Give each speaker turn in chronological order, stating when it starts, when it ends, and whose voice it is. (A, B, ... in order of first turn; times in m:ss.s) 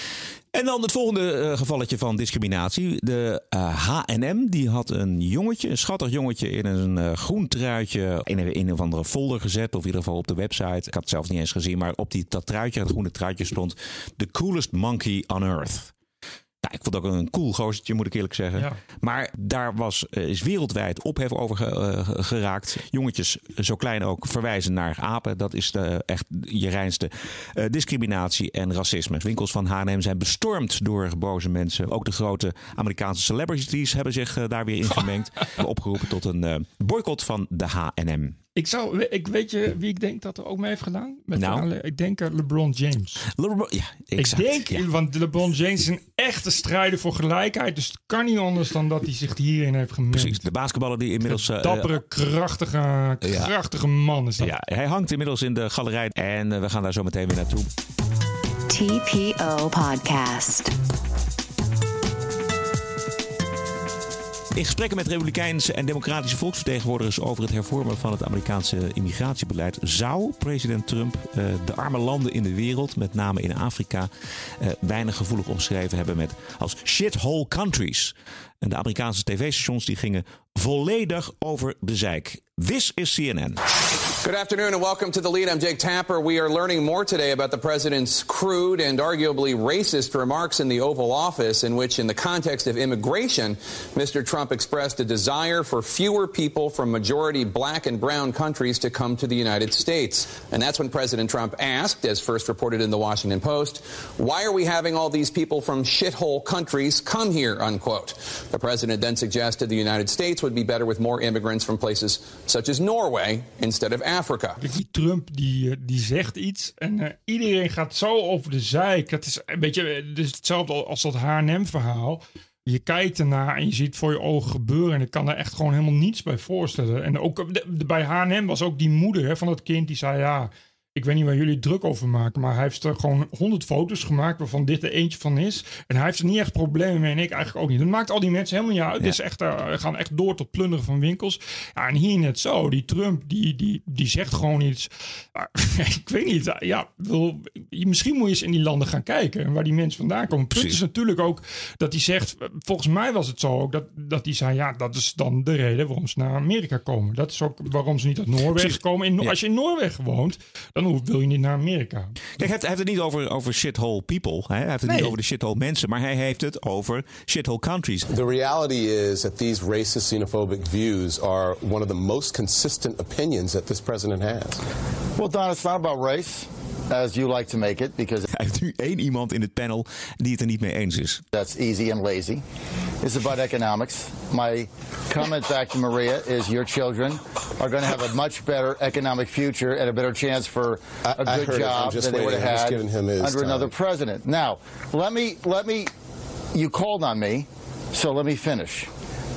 0:00.5-0:15.9 A
0:16.6-0:38.4 A
0:38.6-0:43.2 B
0:41.4-0:41.7 A
0:43.4-0:44.9 A
0:44.2-0:50.5 B
0:50.1-0:51.9 A
0:51.2-0:54.5 B
0:53.2-0:53.5 A
0:54.4-0:57.7 A
0:58.7-1:00.7 C
1:04.6-1:23.6 A
1:24.2-1:54.6 D
1:54.6-2:42.2 B
2:30.5-2:30.8 A
2:38.6-2:39.4 A
2:42.4-2:48.1 A
2:44.9-2:45.1 B
2:48.1-2:54.6 E
2:55.2-2:58.3 F
2:58.3-3:01.2 A
3:01.3-3:02.4 F
3:03.0-3:15.9 F
3:11.1-3:13.7 E
3:16.5-3:18.9 F